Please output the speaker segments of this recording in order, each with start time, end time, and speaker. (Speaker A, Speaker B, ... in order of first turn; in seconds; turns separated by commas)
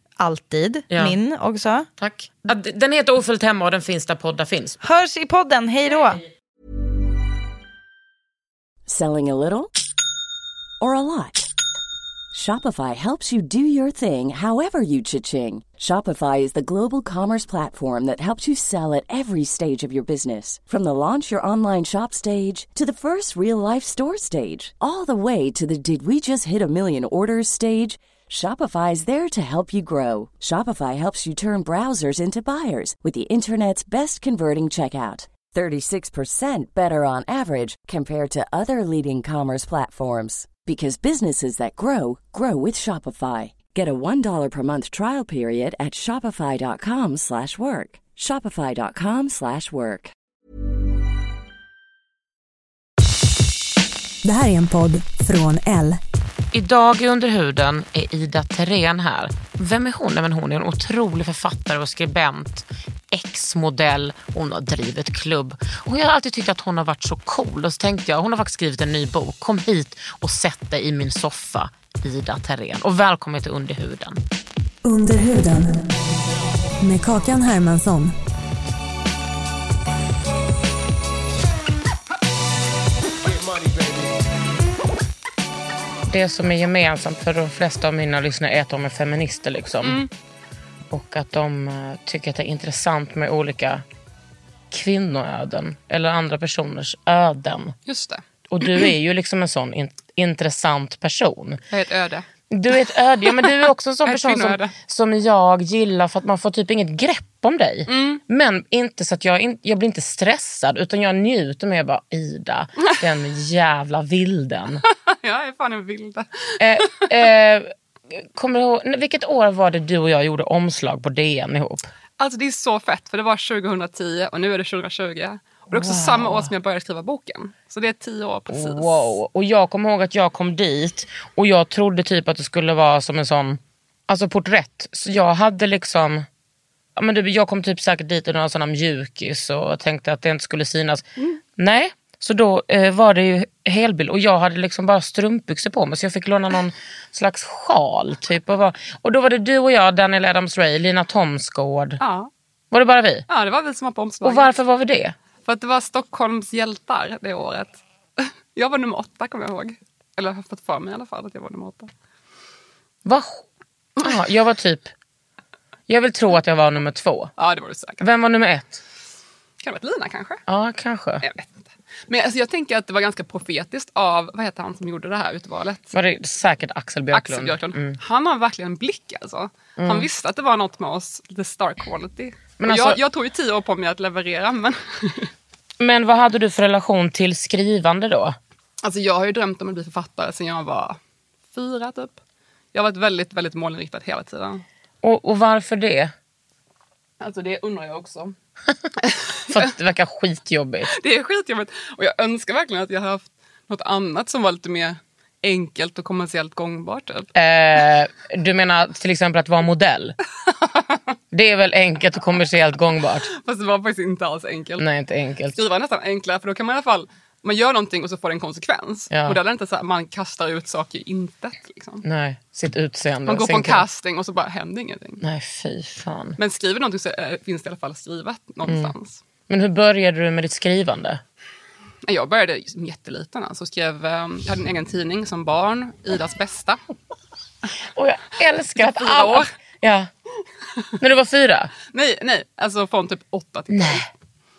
Speaker A: 0.2-1.9, Speaker B: 0.9-1.1, Speaker B: 2.0-4.8, Speaker A: 4.8-6.2, Speaker C: 8.9-9.7, Speaker C: 10.8-11.4, Speaker C: 12.3-50.1, Speaker D: 54.2-56.0, Speaker B: 56.5-74.2, Speaker D: 74.8-75.8, Speaker D: 76.8-78.1, Speaker B: 86.1-90.0, Speaker E: 89.8-90.1, Speaker B: 90.9-93.8, Speaker B: 94.7-97.8, Speaker E: 97.8-98.9, Speaker B: 98.5-101.6, Speaker E: 101.7-102.2, Speaker B: 102.5-114.8, Speaker E: 103.4-104.7, Speaker E: 107.9-108.2, Speaker E: 114.9-117.1, Speaker B: 116.6-121.9, Speaker E: 122.2-129.1, Speaker B: 125.7-126.5, Speaker B: 128.5-136.2, Speaker B: 136.9-141.0, Speaker B: 141.6-152.0, Speaker E: 152.0-152.3, Speaker B: 152.7-153.2, Speaker E: 153.3-154.5, Speaker B: 154.2-155.1, Speaker E: 155.4-161.9, Speaker B: 163.0-163.4, Speaker B: 164.0-164.9, Speaker B: 165.9-167.3, Speaker E: 167.4-168.0, Speaker B: 168.0-168.8, Speaker E: 169.6-170.4, Speaker B: 170.5-171.2, Speaker E: 171.2-175.9, Speaker B: 175.9-178.0, Speaker E: 177.1-185.3, Speaker B: 179.8-180.1, Speaker B: 182.6-183.0, Speaker B: 185.8-188.4, Speaker E: 188.8-191.0, Speaker E: 191.5-192.2, Speaker E: 192.7-194.6, Speaker B: 195.0-196.1, Speaker E: 197.2-198.3, Speaker E: 199.0-199.7, Speaker B: 199.5-200.9, Speaker E: 200.9-207.3, Speaker B: 207.3-210.2, Speaker E: 210.5-211.0, Speaker B: 211.3-213.3, Speaker E: 213.3-214.8, Speaker B: 214.8-215.6, Speaker E: 215.5-222.0, Speaker B: 219.1-219.4, Speaker B: 222.0-223.8, Speaker E: 223.2-225.2, Speaker B: 225.2-226.4, Speaker E: 226.4-229.2, Speaker B: 228.6-228.9, Speaker B: 229.5-231.2, Speaker E: 232.1-236.8, Speaker B: 237.9-240.1, Speaker E: 238.8-239.5, Speaker B: 241.0-241.7, Speaker E: 241.9-244.1, Speaker B: 243.7-244.1